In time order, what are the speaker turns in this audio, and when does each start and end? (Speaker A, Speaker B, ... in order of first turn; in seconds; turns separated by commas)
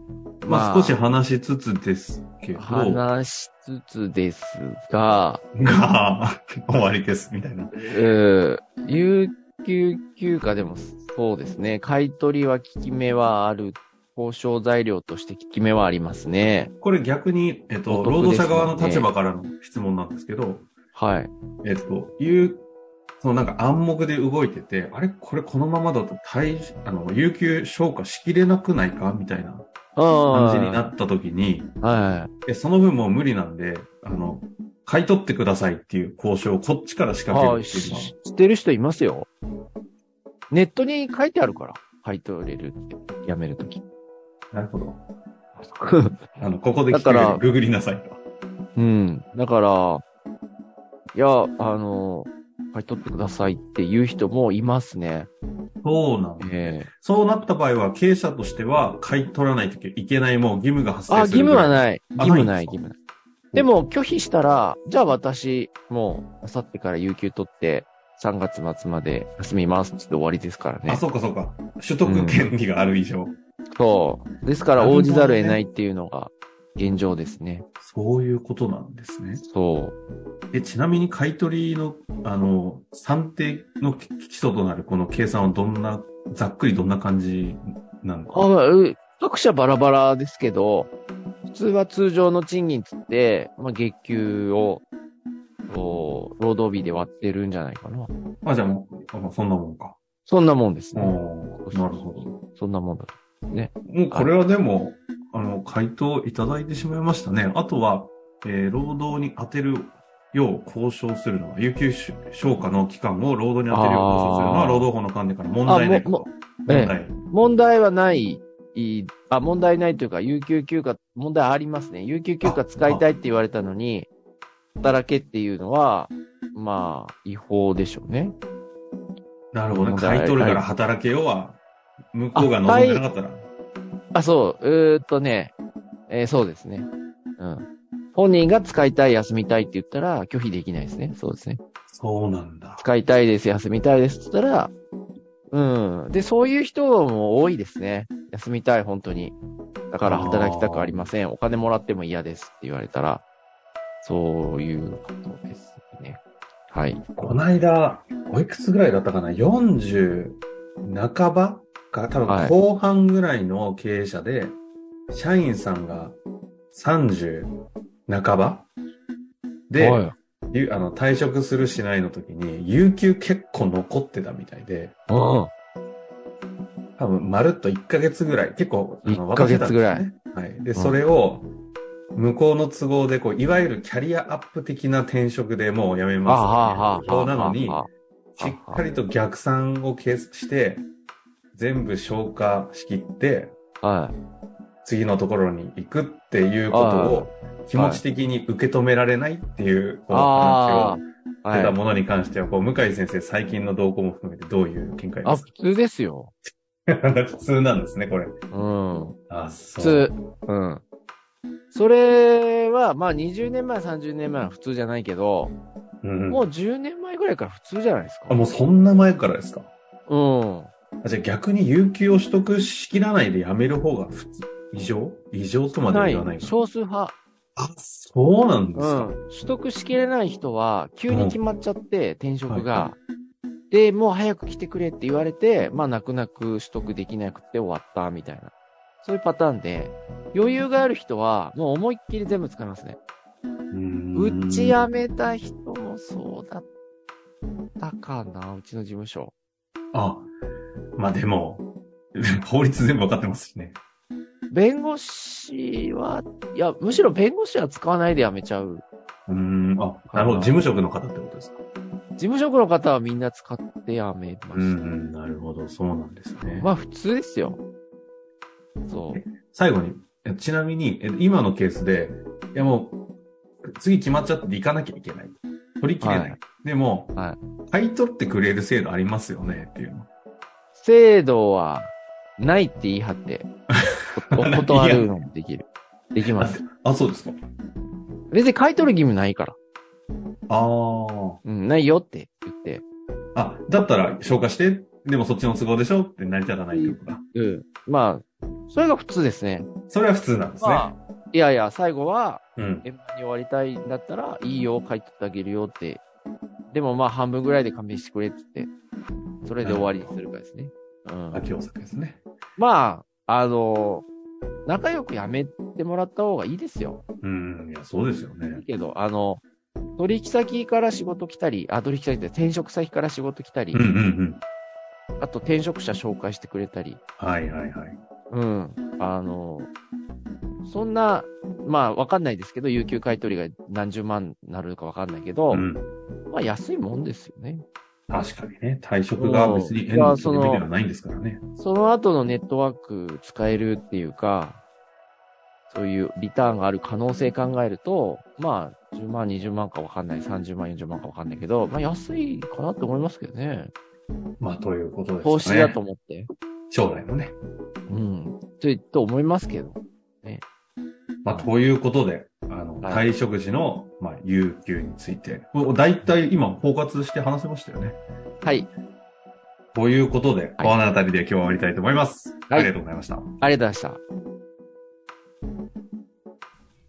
Speaker A: 0.4-1.0, Speaker B: 0.5-3.0, Speaker A: 2.6-5.4, Speaker B: 5.5-8.0, Speaker A: 7.8-16.7, Speaker B: 16.8-20.7, Speaker A: 17.9-19.1, Speaker A: 20.9-21.3, Speaker B: 21.6-22.7, Speaker B: 23.2-29.7, Speaker A: 30.0-30.9, Speaker B: 30.3-31.7, Speaker A: 31.8-32.3, Speaker B: 32.5-38.1, Speaker A: 37.3-39.3, Speaker A: 40.5-43.8, Speaker B: 44.5-45.0, Speaker A: 45.6-46.2, Speaker B: 46.4-48.2, Speaker A: 46.9-47.4, Speaker A: 48.8-50.0, Speaker A: 51.1-55.3, Speaker B: 55.8-62.8, Speaker A: 56.4-56.9, Speaker A: 61.1-63.0, Speaker A: 63.5-71.0, Speaker B: 70.9-73.4, Speaker A: 72.0-72.5, Speaker A: 73.8-77.7, Speaker B: 74.8-75.6, Speaker B: 77.8-79.4, Speaker A: 79.4-80.0, Speaker B: 80.5-88.5, Speaker A: 88.3-90.9, Speaker A: 91.5-94.8, Speaker A: 95.7-98.1, Speaker B: 98.4-100.0, Speaker A: 100.3-104.3, Speaker B: 101.0-102.4, Speaker B: 103.9-117.2, Speaker A: 113.7-114.9, Speaker A: 115.7-124.1, Speaker B: 122.4-123.0, Speaker A: 124.8-128.4, Speaker B: 129.5-131.6, Speaker A: 129.7-130.7, Speaker B: 132.1-133.5, Speaker A: 132.3-133.0, Speaker A: 134.1-135.5, Speaker A: 136.1-141.6, Speaker B: 141.9-142.8, Speaker A: 142.8-144.7, Speaker A: 145.5-149.4, Speaker A: 149.9-153.2, Speaker B: 150.0-151.1, Speaker A: 154.0-157.3, Speaker B: 157.2-164.6, Speaker A: 162.3-162.6, Speaker B: 165.1-166.2, Speaker B: 166.7-167.5, Speaker B: 168.1-168.7, Speaker B: 169.7-175.0, Speaker A: 169.8-170.1, Speaker A: 175.1-175.5, Speaker B: 177.0-181.5, Speaker A: 179.1-180.1, Speaker B: 182.2-187.8, Speaker A: 186.3-188.8, Speaker B: 188.4-190.9, Speaker B: 191.5-193.6, Speaker A: 193.8-194.2, Speaker B: 194.8-205.5, Speaker A: 196.7-198.0, Speaker A: 200.1-201.8, Speaker A: 205.2-206.3, Speaker B: 206.9-208.3, Speaker A: 208.5-209.2, Speaker B: 209.3-210.1, Speaker A: 209.8-210.8, Speaker A: 211.7-215.5, Speaker B: 216.0-216.4, Speaker A: 216.3-218.5, Speaker B: 218.3-219.7, Speaker A: 220.1-220.7, Speaker B: 221.0-226.5, Speaker A: 225.9-227.2, Speaker B: 227.6-229.1, Speaker A: 228.8-233.0, Speaker B: 231.1-231.4, Speaker B: 232.5-232.8, Speaker A: 233.7-243.0, Speaker B: 243.7-244.8, Speaker A: 244.2-246.7, Speaker A: 247.8-249.3, Speaker B: 249.9-250.3, Speaker B: 251.0-253.8, Speaker A: 254.5-258.9, Speaker B: 259.3-261.6, Speaker A: 260.1-260.6, Speaker A: 262.2-264.8, Speaker B: 264.5-266.7, Speaker A: 266.5-267.6, Speaker A: 268.9-269.2, Speaker B: 269.1-273.0, Speaker B: 273.8-277.1, Speaker A: 276.0-276.4, Speaker B: 277.7-280.1, Speaker A: 280.8-283.5, Speaker B: 284.0-285.1, Speaker A: 284.1-286.6, Speaker B: 286.2-287.4, Speaker A: 288.3-289.6, Speaker B: 290.5-291.4, Speaker A: 291.4-292.8, Speaker B: 293.4-297.2, Speaker A: 296.7-299.7, Speaker B: 299.9-300.9, Speaker A: 300.6-306.0, Speaker B: 302.6-302.9, Speaker A: 306.7-308.7, Speaker A: 309.4-311.5, Speaker B: 309.6-310.1, Speaker B: 311.3-312.2, Speaker A: 312.6-314.1, Speaker A: 314.7-317.0, Speaker B: 317.2-318.6, Speaker A: 318.5-319.4, Speaker A: 320.0-323.8, Speaker B: 323.7-324.4, Speaker A: 325.2-327.0, Speaker B: 327.2-328.0, Speaker A: 328.3-329.7, Speaker A: 330.6-335.6, Speaker B: 335.5-335.9, Speaker A: 336.3-337.6, Speaker B: 338.1-341.4, Speaker A: 339.1-340.7, Speaker A: 341.6-344.6, Speaker A: 345.7-353.7, Speaker B: 354.4-355.8, Speaker A: 355.2-356.3, Speaker B: 356.7-357.4, Speaker A: 357.9-360.4, Speaker B: 361.2-368.0, Speaker A: 368.4-368.7, Speaker B: 369.7-373.4, Speaker A: 373.4-374.0